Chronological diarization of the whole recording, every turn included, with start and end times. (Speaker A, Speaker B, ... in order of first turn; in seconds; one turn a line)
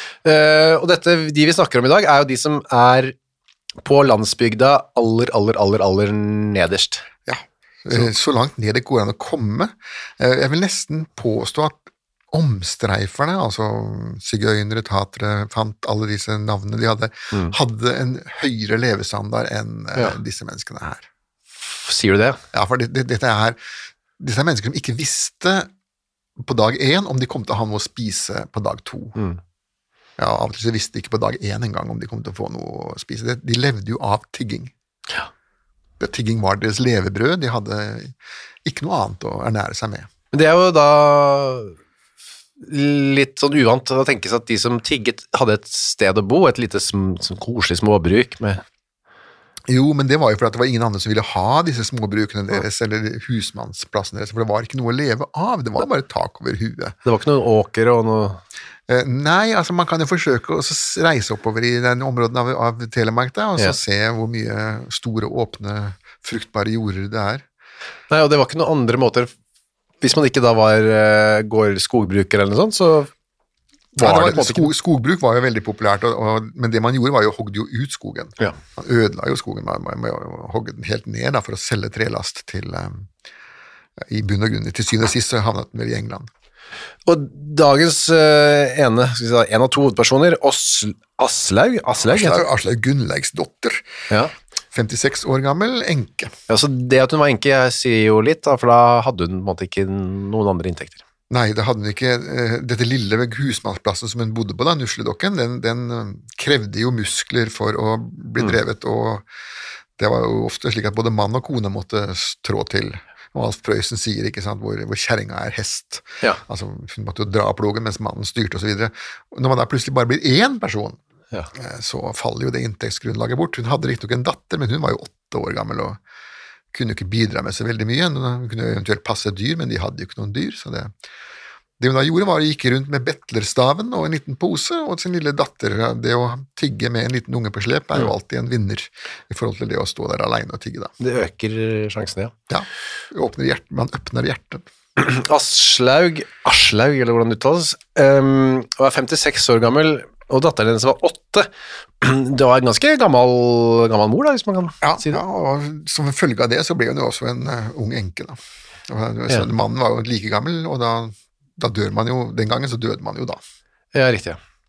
Speaker A: 0.2-3.1
Speaker A: 3.8-7.1
Speaker B: 7.3-21.1
Speaker A: 21.7-22.4
Speaker B: 22.5-23.6
Speaker B: 24.2-25.7
Speaker B: 26.4-29.2
Speaker B: 30.2-34.7
Speaker B: 36.0-40.1
Speaker A: 40.3-41.7
Speaker A: 42.6-48.6
Speaker B: 49.7-57.0
Speaker A: 57.1-58.4
Speaker B: 58.9-67.5
Speaker A: 68.1-69.3
Speaker A: 70.0-73.1
Speaker B: 74.0-83.1
Speaker A: 74.0-74.7
Speaker B: 84.0-86.3
Speaker A: 87.1-92.4
Speaker B: 92.1-93.9
Speaker B: 94.7-96.3
Speaker A: 96.5-101.0
Speaker B: 101.3-109.3
Speaker B: 110.0-121.0
Speaker B: 121.5-126.0
Speaker B: 126.7-130.9
Speaker B: 131.8-140.9
Speaker A: 141.0-142.3
Speaker B: 142.5-144.7
Speaker A: 145.0-151.5
Speaker A: 152.0-155.2
Speaker B: 154.8-163.4
Speaker A: 163.9-164.4